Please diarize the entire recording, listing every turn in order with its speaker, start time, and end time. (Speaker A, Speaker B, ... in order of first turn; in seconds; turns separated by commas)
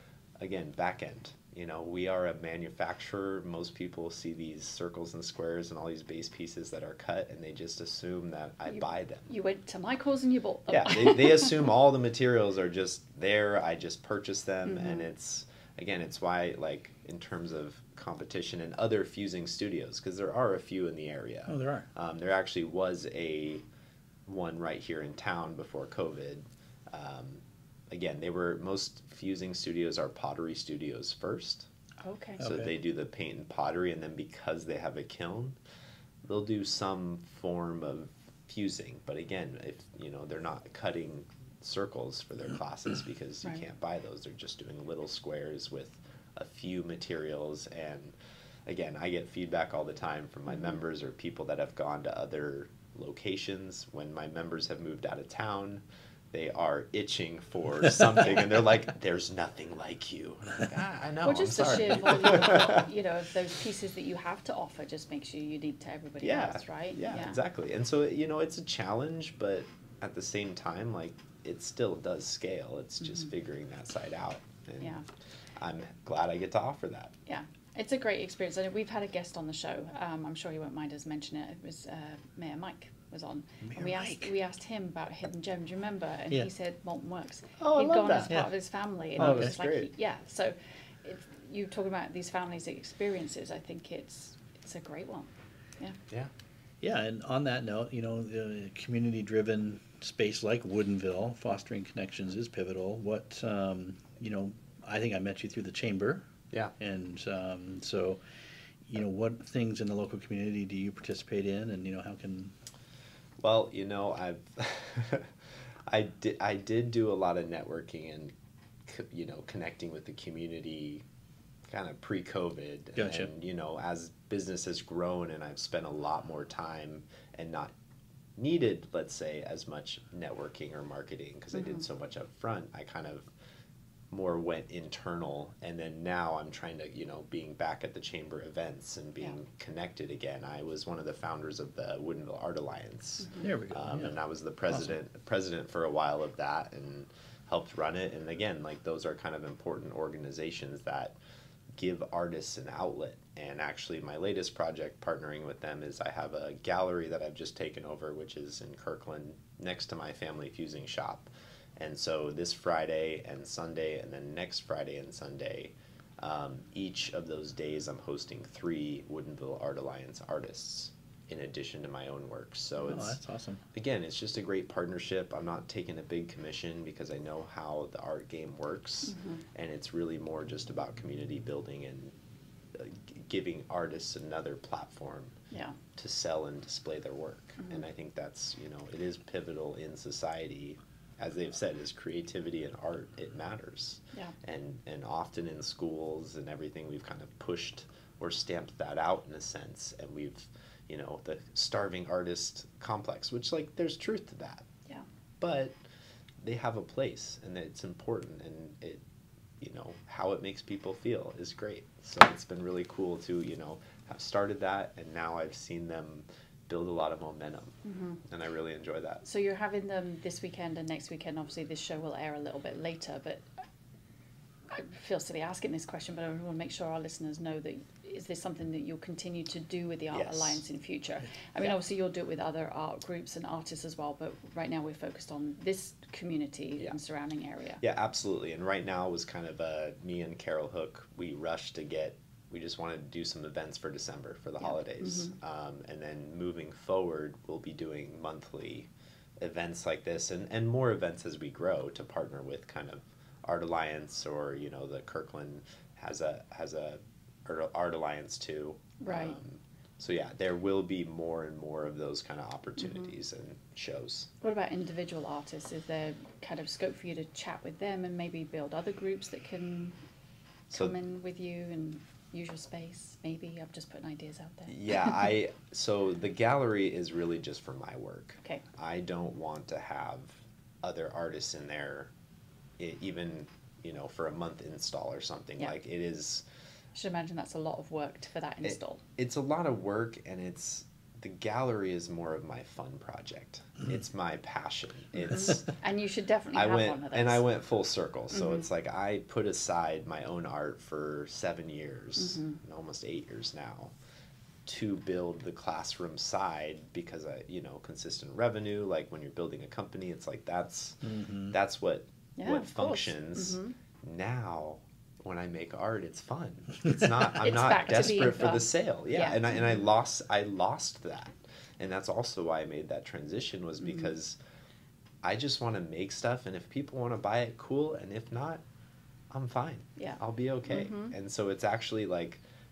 Speaker A: 0.4-9.3, Speaker B: 8.7-11.6, Speaker A: 10.7-23.6, Speaker B: 14.7-15.1, Speaker C: 21.5-21.9, Speaker A: 24.3-31.7, Speaker B: 32.0-32.4, Speaker C: 32.4-32.7, Speaker A: 32.4-35.6, Speaker A: 36.2-48.1, Speaker A: 48.7-62.9, Speaker B: 61.2-67.4, Speaker A: 66.2-75.0, Speaker A: 75.6-77.2, Speaker B: 77.3-96.0, Speaker C: 83.6-84.3, Speaker A: 87.6-88.3, Speaker C: 89.2-89.5, Speaker A: 89.2-89.9, Speaker C: 96.8-106.2, Speaker C: 106.8-108.2, Speaker C: 108.9-112.5, Speaker A: 113.4-115.3, Speaker A: 115.9-118.3, Speaker A: 118.9-121.0, Speaker A: 121.7-127.8, Speaker C: 123.0-123.3, Speaker A: 128.4-133.3, Speaker A: 134.1-151.2, Speaker C: 143.4-144.2, Speaker C: 144.7-144.9, Speaker A: 151.8-173.2, Speaker C: 172.9-173.6, Speaker A: 173.7-182.2, Speaker B: 179.1-179.4, Speaker A: 182.7-185.4, Speaker B: 185.5-185.8, Speaker A: 186.0-204.7, Speaker A: 205.4-205.8, Speaker A: 206.4-209.0, Speaker A: 209.6-219.2, Speaker B: 217.8-218.2, Speaker B: 219.2-223.5, Speaker B: 224.7-237.8, Speaker A: 230.1-230.6, Speaker A: 237.8-264.3, Speaker B: 244.6-245.3, Speaker B: 259.0-259.4, Speaker B: 264.4-270.0, Speaker B: 270.7-274.7, Speaker A: 274.7-282.1, Speaker A: 282.8-286.4, Speaker B: 286.9-289.0, Speaker A: 288.6-295.7, Speaker B: 295.3-297.5, Speaker A: 296.5-303.9, Speaker B: 298.3-298.6, Speaker B: 302.2-302.6, Speaker A: 304.7-324.4, Speaker C: 311.0-311.5, Speaker B: 312.4-313.7, Speaker B: 317.4-319.5, Speaker A: 325.2-328.6, Speaker A: 329.3-332.4, Speaker B: 330.0-331.1